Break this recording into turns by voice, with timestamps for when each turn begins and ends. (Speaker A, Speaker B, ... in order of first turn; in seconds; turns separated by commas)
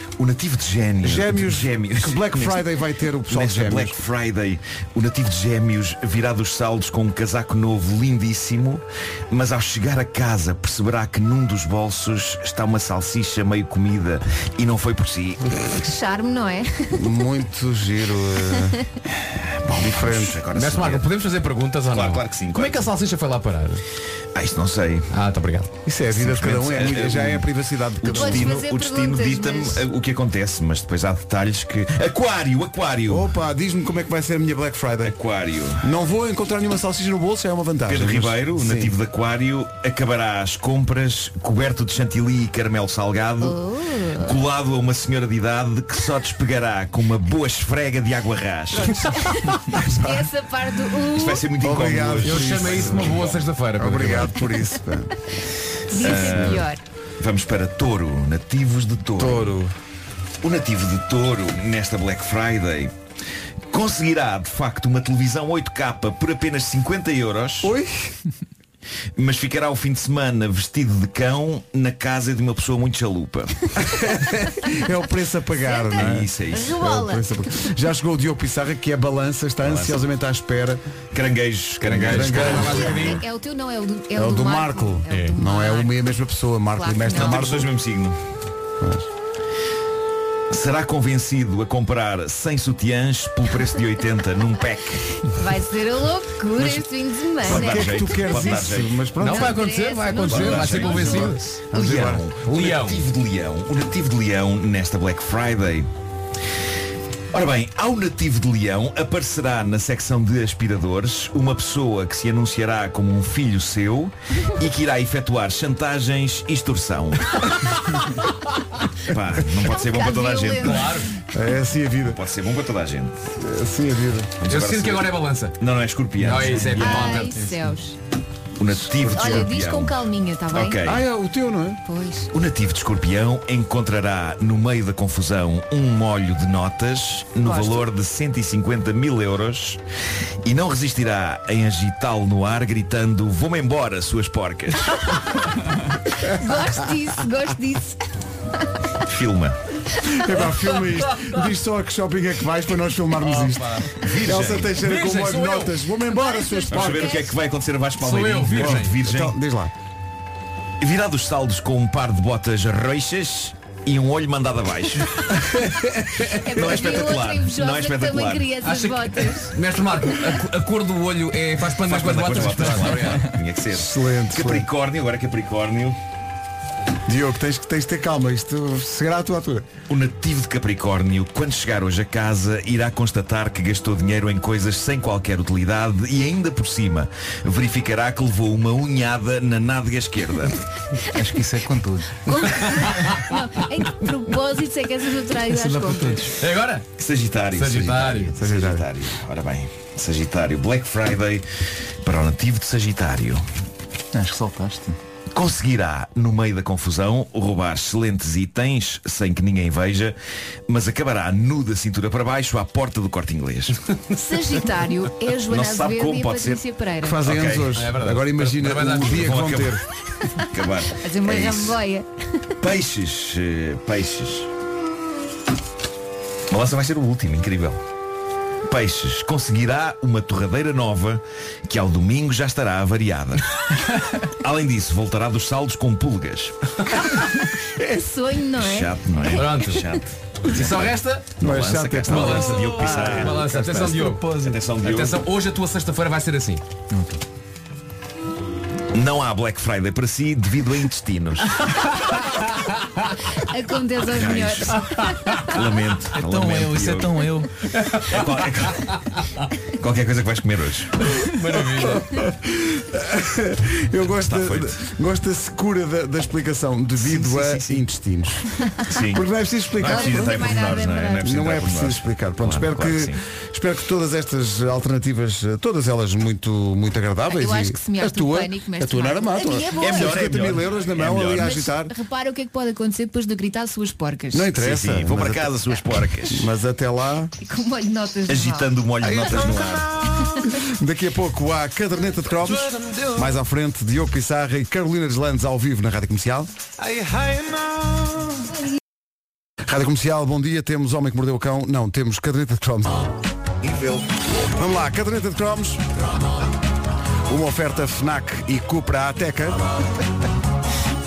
Speaker A: 0.2-2.6, Speaker B: 1.0-4.0, Speaker A: 3.3-15.4, Speaker C: 15.7-17.0, Speaker B: 16.9-18.8, Speaker A: 19.3-21.1, Speaker B: 19.7-20.4, Speaker D: 20.5-23.8, Speaker A: 21.9-22.9, Speaker A: 24.4-25.1, Speaker D: 25.1-25.7, Speaker B: 25.9-28.6, Speaker A: 26.1-27.5, Speaker A: 28.0-33.3, Speaker C: 28.1-29.9, Speaker B: 33.1-35.1, Speaker A: 35.0-35.9, Speaker B: 35.8-38.9, Speaker A: 37.9-43.6, Speaker C: 43.4-44.4, Speaker A: 44.2-49.1, Speaker C: 48.8-51.5, Speaker A: 51.1-53.4, Speaker B: 51.6-55.1, Speaker D: 52.2-54.4, Speaker C: 55.9-56.8, Speaker A: 56.0-59.5, Speaker B: 56.1-56.6, Speaker B: 59.2-59.7, Speaker A: 60.4-62.9, Speaker A: 63.7-67.7, Speaker B: 67.6-68.2, Speaker A: 69.2-73.7, Speaker B: 73.8-80.8, Speaker C: 75.5-77.2, Speaker A: 76.0-76.8, Speaker A: 79.6-80.0, Speaker A: 81.1-83.2, Speaker D: 81.8-83.2, Speaker B: 81.9-82.8, Speaker C: 82.5-86.0, Speaker B: 84.2-87.7, Speaker C: 86.8-87.5, Speaker A: 87.1-88.2, Speaker B: 88.8-89.1, Speaker A: 90.5-95.0, Speaker C: 95.3-98.2, Speaker A: 97.4-99.0, Speaker B: 97.4-99.6, Speaker D: 99.2-101.5, Speaker C: 99.2-101.4, Speaker A: 100.1-105.9, Speaker B: 101.7-102.2, Speaker D: 102.4-103.0, Speaker A: 107.3-117.7, Speaker A: 119.1-121.0, Speaker C: 119.6-120.9, Speaker D: 120.6-121.1, Speaker B: 121.3-122.2, Speaker A: 122.1-123.1, Speaker B: 123.4-124.3, Speaker A: 124.4-127.2, Speaker D: 124.5-125.5, Speaker D: 126.2-127.5, Speaker C: 126.6-128.0, Speaker A: 128.6-130.0, Speaker C: 129.1-130.8, Speaker A: 130.5-131.0, Speaker B: 130.8-131.8, Speaker C: 131.9-132.3, Speaker A: 132.3-139.8, Speaker C: 137.4-137.9, Speaker A: 140.4-145.2, Speaker C: 146.1-148.0, Speaker A: 149.0-149.6, Speaker B: 150.2-157.2, Speaker D: 153.2-153.9, Speaker A: 154.0-154.8, Speaker D: 154.7-155.7, Speaker C: 156.1-157.3, Speaker A: 156.7-159.3, Speaker D: 158.0-159.0, Speaker B: 158.5-159.7, Speaker A: 160.8-165.4, Speaker C: 166.3-169.6, Speaker A: 166.4-168.6, Speaker D: 168.7-173.3, Speaker A: 171.9-176.0, Speaker B: 173.7-174.7, Speaker B: 177.1-179.7, Speaker A: 179.9-190.6, Speaker E: 191.1-192.4, Speaker C: 192.3-196.3, Speaker E: 195.5-196.4, Speaker D: 196.3-196.8, Speaker A: 197.0-201.4, Speaker D: 197.5-198.3, Speaker B: 198.4-198.9, Speaker A: 202.0-203.4, Speaker E: 204.2-205.0, Speaker A: 205.3-210.2, Speaker A: 210.7-213.8, Speaker C: 214.2-217.2, Speaker A: 215.5-216.6, Speaker B: 217.0-219.8, Speaker A: 217.2-217.8, Speaker D: 217.8-219.4, Speaker A: 219.1-219.8, Speaker C: 220.2-222.1, Speaker A: 220.4-221.8, Speaker A: 222.6-224.5, Speaker A: 226.5-227.8, Speaker A: 228.7-233.6, Speaker A: 234.3-236.5, Speaker C: 237.8-239.5, Speaker A: 238.6-243.4, Speaker D: 239.4-239.8, Speaker D: 240.5-241.3, Speaker B: 241.4-244.2, Speaker D: 242.1-246.6, Speaker E: 242.9-243.2, Speaker E: 244.1-244.6, Speaker A: 244.3-245.2, Speaker E: 246.9-247.2, Speaker A: 248.9-251.6, Speaker C: 253.3-255.6, Speaker A: 254.0-257.4, Speaker E: 256.2-257.7, Speaker A: 258.0-258.9, Speaker A: 259.8-261.1, Speaker D: 261.3-262.1, Speaker B: 261.7-268.5, Speaker A: 264.2-264.8, Speaker A: 267.0-267.8, Speaker A: 268.9-269.2, Speaker B: 269.1-270.5, Speaker A: 269.8-273.2, Speaker C: 269.8-271.4, Speaker B: 271.2-281.9, Speaker C: 277.3-280.5, Speaker A: 279.8-281.6, Speaker C: 281.4-284.5, Speaker B: 284.3-285.6, Speaker A: 284.6-286.5, Speaker B: 286.2-287.3, Speaker C: 287.4-288.7, Speaker A: 288.3-289.9, Speaker E: 289.1-290.1, Speaker C: 290.1-290.5, Speaker B: 290.5-296.5, Speaker E: 292.7-293.2, Speaker E: 296.8-298.2, Speaker B: 299.6-303.1, Speaker A: 303.6-304.0, Speaker B: 304.5-305.9, Speaker B: 307.3-309.6